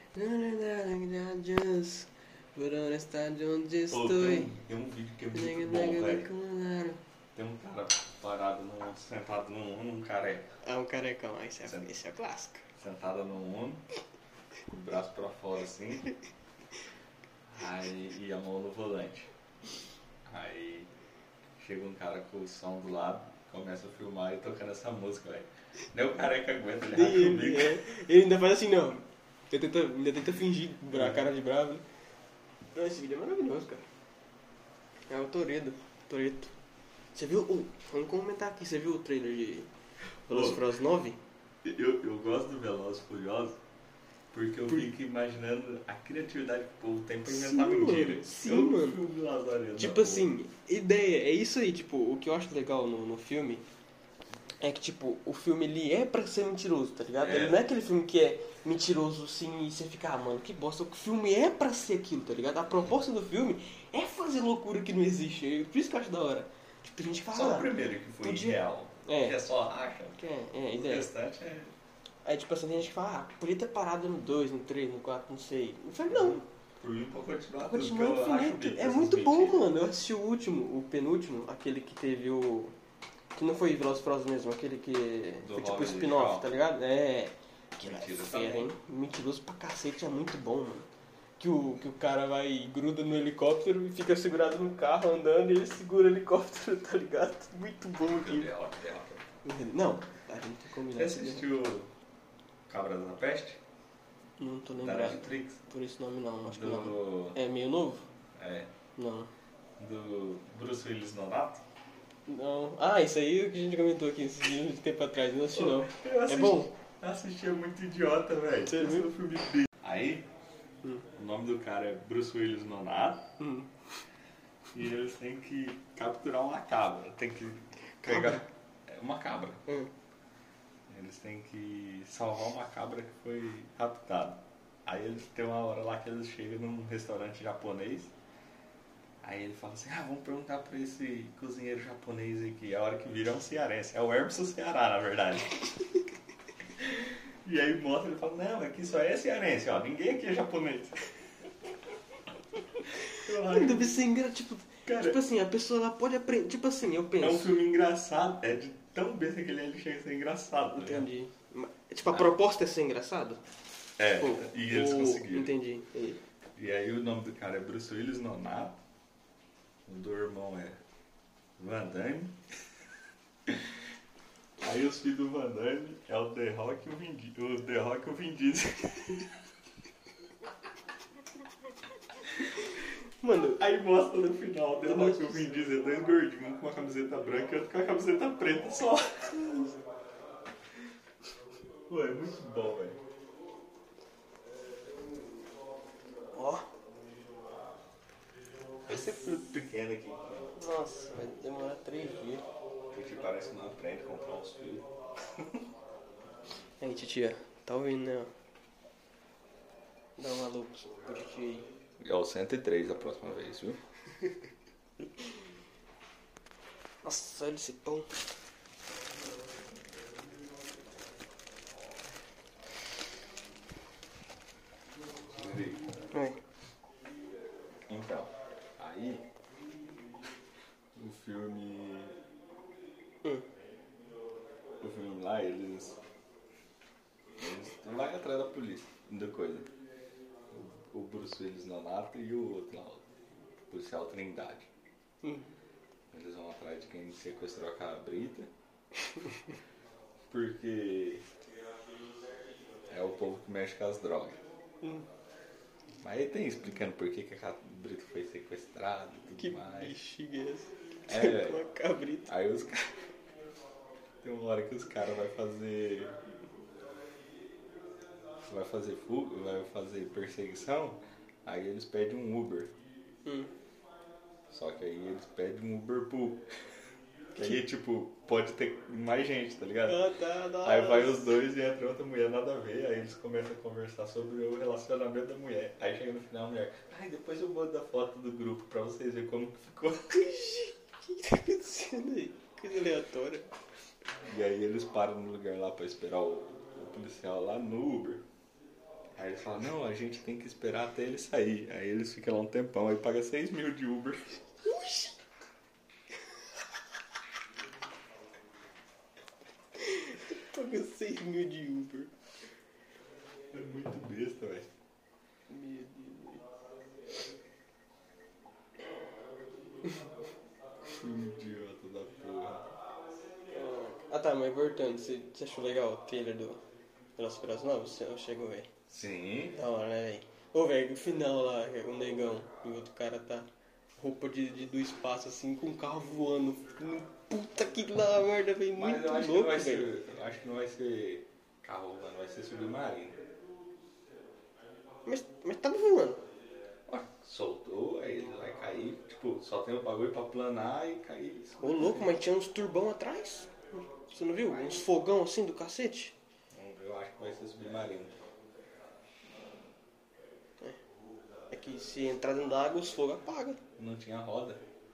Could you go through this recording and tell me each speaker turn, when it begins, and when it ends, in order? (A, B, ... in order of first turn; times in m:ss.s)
0:00.1-0:04.5 A
0:03.9-0:06.3 B
0:05.3-0:07.0 A
0:07.4-0:10.5 B
0:10.6-0:12.6 A
0:12.8-0:13.9 B
0:14.7-0:16.1 B
0:17.5-0:19.3 B
0:20.3-0:20.9 B
0:21.6-0:27.8 B
0:26.9-0:31.8 A
0:30.9-0:31.3 B
0:32.7-0:33.8 A
0:35.1-0:36.5 A
0:37.2-0:39.7 A
0:40.3-0:41.2 A
0:40.3-0:40.6 B
0:41.6-0:43.6 B
0:44.3-0:50.3 B
0:47.2-0:49.0 A
0:49.8-0:53.7 A
0:54.6-1:09.4 A
0:57.2-0:57.6 B
1:07.3-1:10.2 B
1:10.2-1:11.1 A
1:10.7-1:11.7 B
1:12.2-1:16.4 A
1:16.1-1:19.6 B
1:17.6-1:22.8 A
1:23.4-1:30.9 A
1:25.4-1:26.5 B
1:27.8-1:28.7 B
1:31.4-1:38.5 A
1:38.0-1:39.3 B
1:39.4-1:41.5 A
1:40.9-1:41.9 B
1:42.7-1:43.6 B
1:44.4-1:48.1 A
1:44.8-1:45.6 B
1:46.5-1:47.4 B
1:48.4-1:48.7 B
1:49.0-1:49.3 A
1:49.8-1:51.6 B
1:52.3-1:56.7 A
1:55.5-2:00.3 B
1:58.7-1:59.1 A
2:01.1-2:03.3 B
2:03.4-2:03.7 A
2:04.7-2:09.6 B
2:08.0-2:08.4 A
2:10.9-2:18.1 B
2:19.2-2:25.6 B
2:27.4-2:31.1 B
2:33.1-2:34.0 B
2:33.3-2:37.5 A
2:34.9-2:35.2 B
2:37.2-2:41.1 B
2:40.7-2:43.4 A
2:44.0-2:45.5 B
2:44.2-2:46.2 A
2:46.6-2:48.8 B
2:49.9-2:50.8 B
2:51.6-2:52.4 B
2:54.6-2:59.3 B
3:03.2-3:03.6 A
3:03.6-3:09.7 B
3:04.8-3:05.7 A
3:11.9-3:13.0 B
3:16.3-3:16.7 A
3:18.9-3:20.5 B
3:20.6-3:22.4 A
3:22.9-3:24.9 B
3:26.8-3:28.3 A
3:30.2-3:31.7 A
3:32.0-3:33.8 B
3:37.0-3:38.1 A
3:45.3-3:45.9 B
3:46.1-3:46.4 A
3:47.9-3:49.2 B
3:51.0-3:52.2 B
3:54.8-3:56.0 B
3:57.4-3:59.7 B
4:00.5-4:03.1 B
4:03.7-4:04.7 B
4:06.1-4:08.5 B
4:10.3-4:11.2 B
4:12.9-4:14.4 B
4:14.8-4:15.1 A
4:16.0-4:20.0 B
4:19.4-4:22.3 A
4:21.1-4:21.6 B
4:22.3-4:23.1 B
4:24.2-4:26.2 B
4:28.5-4:32.7 B
4:33.2-4:33.5 A
4:34.5-4:36.5 B
4:37.4-4:40.1 B
4:39.9-4:41.3 A
4:40.6-4:50.4 B
4:50.1-4:53.5 A
4:54.2-4:58.2 B
4:59.2-5:04.5 B
5:04.7-5:05.1 A
5:09.8-5:12.1 A
5:13.5-5:14.7 B
5:15.5-5:16.4 A
5:20.9-5:22.7 B
5:23.5-5:26.6 A
5:27.2-5:28.7 A
5:28.9-5:29.6 B
5:29.5-5:39.9 A
5:38.8-5:43.2 B
5:45.1-5:46.2 A
5:46.9-5:52.1 B
5:51.6-5:56.1 A
5:56.5-5:58.1 B
6:01.5-6:03.6 A
6:03.8-6:04.6 B